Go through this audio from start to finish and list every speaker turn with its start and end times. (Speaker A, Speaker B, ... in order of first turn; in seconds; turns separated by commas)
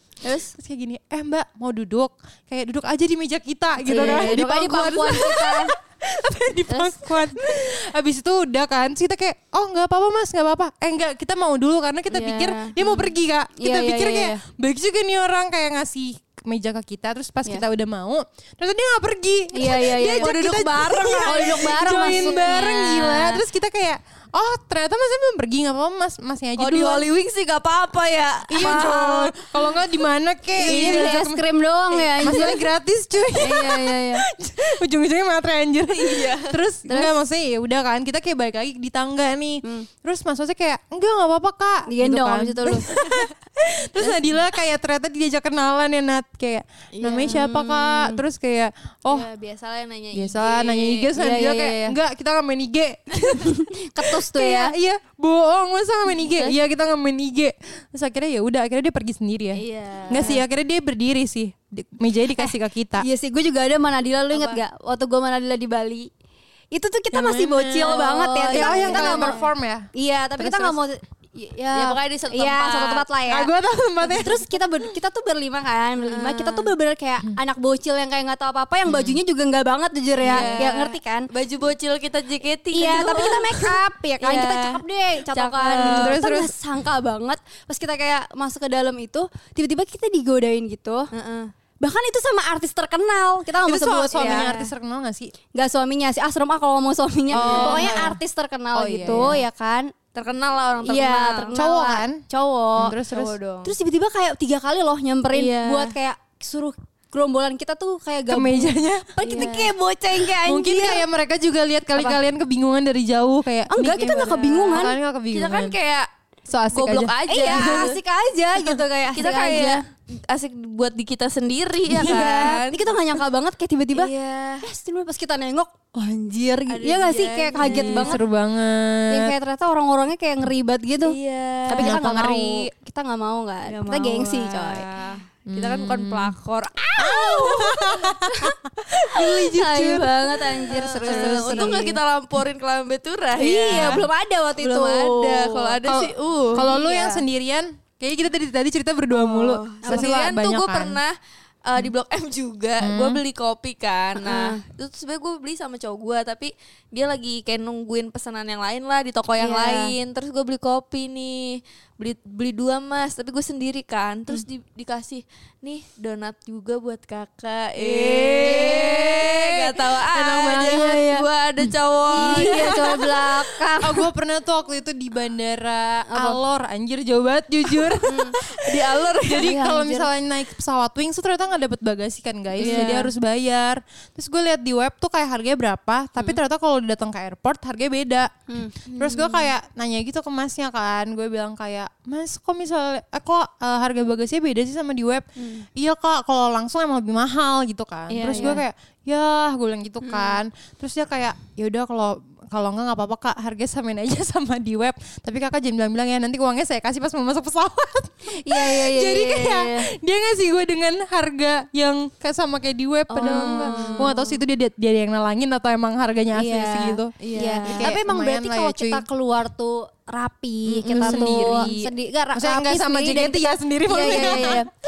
Speaker A: 0.5-27.1, Speaker B: 3.9-5.0, Speaker C: 3.9-5.7, Speaker C: 6.7-7.0, Speaker B: 12.1-12.7, Speaker C: 13.6-14.4, Speaker C: 19.5-23.4, Speaker B: 20.1-22.8, Speaker B: 26.6-29.8, Speaker A: 28.5-31.4, Speaker C: 30.6-32.7, Speaker B: 30.6-31.1, Speaker A: 32.2-49.3, Speaker C: 33.4-34.2, Speaker B: 35.9-36.5, Speaker C: 36.9-37.1, Speaker C: 39.6-39.9, Speaker C: 41.9-42.9, Speaker B: 42.9-43.3, Speaker B: 44.0-44.4, Speaker B: 46.9-48.2, Speaker B: 49.1-51.1, Speaker A: 50.1-63.0, Speaker C: 51.1-52.0, Speaker C: 53.5-54.7, Speaker B: 56.2-56.5, Speaker B: 59.5-60.4, Speaker C: 62.4-66.1, Speaker B: 64.3-64.6, Speaker C: 66.7-69.4, Speaker A: 67.1-69.9, Speaker B: 67.9-69.4, Speaker C: 69.9-73.5, Speaker A: 70.4-70.7, Speaker B: 71.7-73.1, Speaker A: 73.3-74.4, Speaker C: 74.1-81.3, Speaker B: 76.0-76.7, Speaker A: 78.9-79.2, Speaker A: 80.2-80.7, Speaker B: 80.2-83.7, Speaker C: 82.7-91.1, Speaker B: 84.2-86.1, Speaker A: 85.7-86.5, Speaker B: 91.1-91.5, Speaker C: 91.8-94.7, Speaker A: 93.6-95.3, Speaker B: 94.2-94.6, Speaker C: 95.5-99.9, Speaker B: 97.3-98.1, Speaker A: 97.3-98.2, Speaker A: 98.7-99.4, Speaker B: 99.0-99.4, Speaker B: 100.1-101.5, Speaker C: 100.8-103.0, Speaker A: 101.5-102.2, Speaker A: 102.8-103.3, Speaker B: 103.1-103.7, Speaker C: 103.6-111.0, Speaker B: 105.3-105.9, Speaker A: 108.3-109.6, Speaker B: 109.2-109.7, Speaker A: 110.4-115.8, Speaker C: 113.7-115.0, Speaker B: 114.7-116.1, Speaker A: 116.5-117.9, Speaker B: 116.7-118.0, Speaker C: 117.3-119.8, Speaker B: 119.1-122.9, Speaker A: 122.0-122.5, Speaker C: 122.0-128.2, Speaker B: 123.9-124.6, Speaker B: 126.7-128.2, Speaker A: 127.6-129.3, Speaker C: 129.1-134.9, Speaker B: 131.0-132.0, Speaker A: 131.8-132.7, Speaker B: 133.7-136.8, Speaker A: 135.5-136.3, Speaker C: 136.9-138.5, Speaker A: 137.0-141.9, Speaker C: 139.2-142.0, Speaker B: 141.0-146.7, Speaker C: 143.3-145.8, Speaker A: 143.7-144.1, Speaker A: 145.8-151.0, Speaker C: 146.5-147.2, Speaker B: 149.1-151.1, Speaker C: 149.8-150.1, Speaker B: 151.7-173.2, Speaker A: 152.8-153.2, Speaker C: 154.2-154.6, Speaker C: 159.4-159.9, Speaker A: 167.8-171.0, Speaker C: 168.4-169.1, Speaker C: 170.6-171.2, Speaker C: 172.1-174.1, Speaker A: 172.1-173.1, Speaker A: 173.8-188.3, Speaker C: 176.1-176.4, Speaker C: 178.0-178.3, Speaker B: 178.4-179.5, Speaker C: 179.4-180.1, Speaker C: 182.6-183.0, Speaker B: 182.6-183.1, Speaker C: 188.5-188.7, Speaker B: 188.9-189.5, Speaker A: 188.9-219.0, Speaker C: 195.4-195.6, Speaker B: 198.1-198.6, Speaker C: 200.0-200.4, Speaker C: 208.3-209.9, Speaker B: 213.1-214.2, Speaker C: 213.1-214.2, Speaker C: 216.3-224.7, Speaker B: 217.2-217.9, Speaker B: 220.7-221.7, Speaker A: 220.9-224.7, Speaker B: 224.0-224.4